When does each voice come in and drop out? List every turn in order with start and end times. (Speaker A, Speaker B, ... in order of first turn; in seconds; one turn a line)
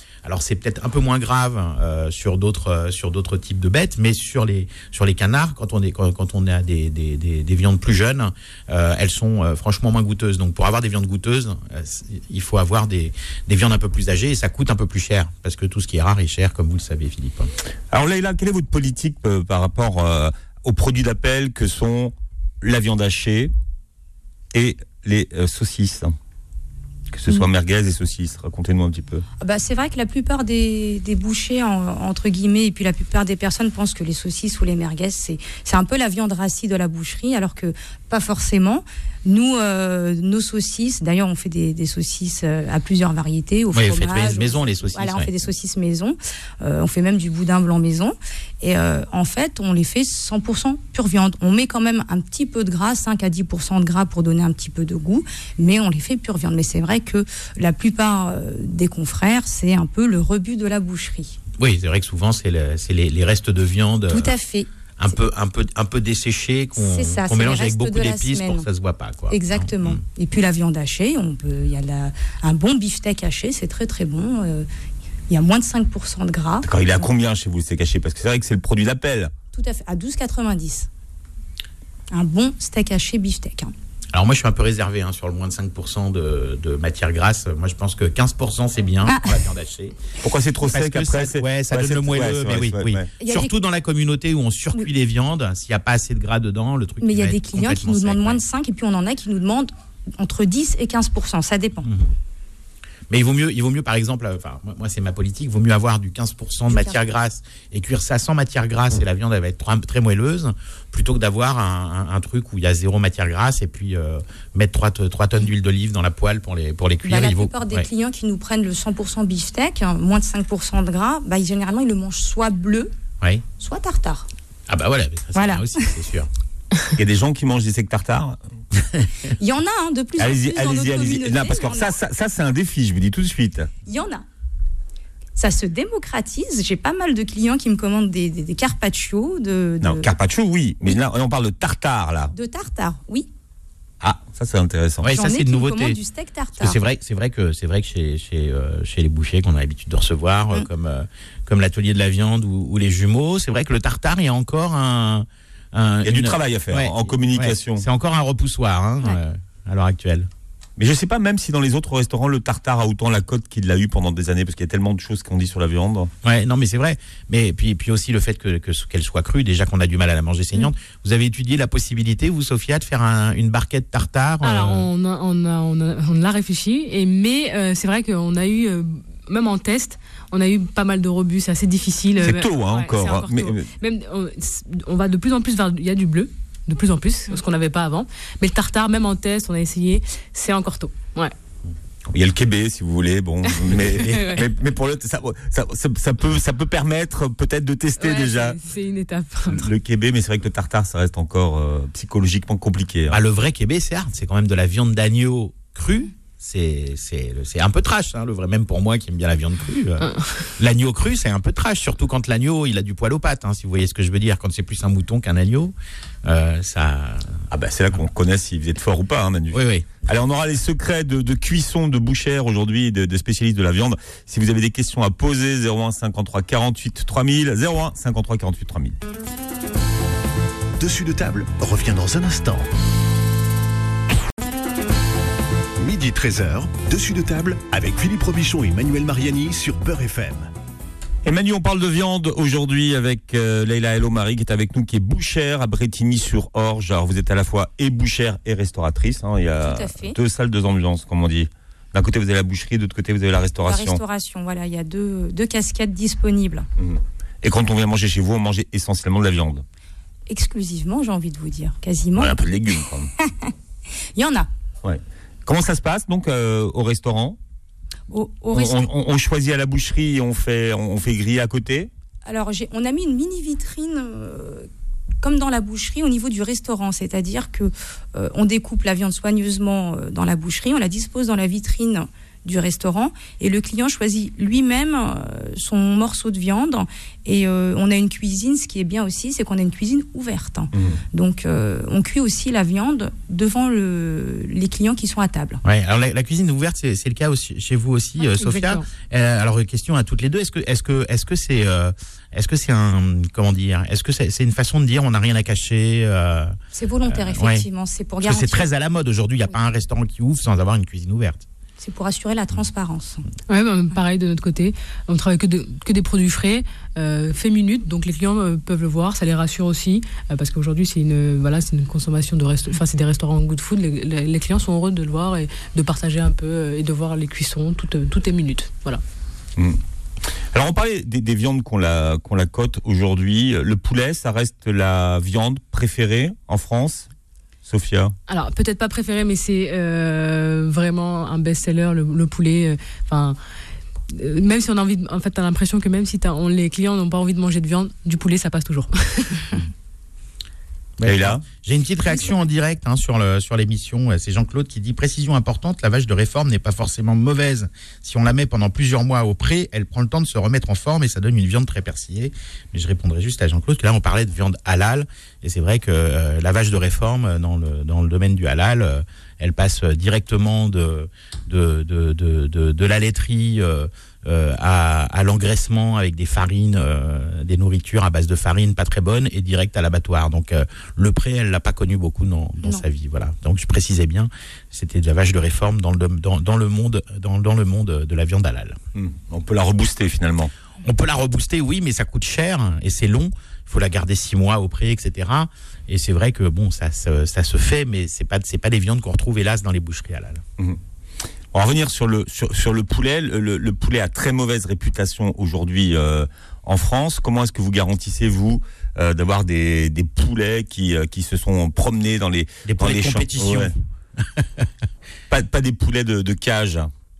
Speaker A: 0.2-17.5
Speaker B: 17.9-23.5
Speaker B: 24.5-26.1
Speaker B: 27.1-29.2
Speaker C: 29.4-61.4
Speaker A: 43.7-45.3
Speaker A: 61.6-64.3
Speaker C: 64.1-64.7
Speaker A: 65.0-70.0
Speaker C: 66.8-68.7
Speaker C: 69.3-74.7
Speaker C: 75.3-77.1
Speaker B: 76.6-79.3
Speaker C: 79.5-80.9
Speaker C: 82.1-83.7
Speaker A: 84.1-90.0
Speaker C: 89.0-89.4
Speaker B: 90.2-93.1
Speaker A: 90.6-98.4
Speaker C: 93.2-93.5
Speaker C: 97.0-101.9
Speaker A: 103.1-117.9
Speaker C: 106.7-107.0
Speaker C: 117.0-122.9
Speaker C: 123.6-124.3
Speaker A: 124.7-126.3
Speaker C: 125.3-125.9
Speaker B: 126.9-128.4
Speaker C: 129.3-131.9
Speaker B: 130.2-133.7
Speaker C: 133.9-134.2
Speaker C: 135.4-140.1
Speaker B: 139.8-142.3
Speaker C: 142.3-143.3
Speaker B: 144.0-145.1
Speaker A: 145.0-146.0
Speaker C: 145.1-146.8
Speaker A: 146.6-160.3
Speaker B: 156.1-157.8
Speaker B: 160.8-166.1
Speaker A: 166.2-174.9
Speaker D: 174.4-191.3
Speaker B: 182.2-183.7
Speaker B: 192.1-198.6
Speaker D: 193.5-194.4
Speaker D: 198.0-199.7
Speaker B: 199.5-203.2
Speaker A: 203.1-215.7
Speaker D: 210.0-210.5
Speaker A: 216.2-217.3
Speaker B: 217.5-228.9
Speaker A: 219.5-219.9
Speaker E: 230.8-232.7
Speaker E: 235.8-240.5
Speaker B: 241.2-254.0
Speaker C: 249.6-250.2
Speaker C: 253.6-256.7
Speaker B: 256.8-259.6
Speaker C: 260.3-262.4
Speaker B: 262.2-263.1
Speaker C: 263.2-263.5
Speaker C: 264.1-264.5
Speaker B: 264.8-267.4
Speaker C: 268.1-268.9
Speaker B: 268.5-271.9
Speaker C: 272.2-274.7
Speaker C: 275.2-295.6
Speaker B: 290.7-291.0
Speaker A: 295.6-306.6
Speaker D: 298.2-298.9
Speaker C: 306.7-308.7
Speaker A: 307.1-307.7
Speaker A: 308.2-311.4
Speaker C: 311.8-313.2
Speaker D: 313.5-329.0
Speaker B: 330.5-337.1
Speaker B: 337.6-338.1
Speaker D: 338.3-343.4
Speaker D: 344.1-349.5
Speaker A: 351.0-388.8
Speaker B: 351.0-351.4
Speaker B: 388.9-390.5
Speaker A: 390.8-400.4
Speaker B: 401.5-413.7
Speaker A: 412.6-413.7
Speaker B: 415.3-416.9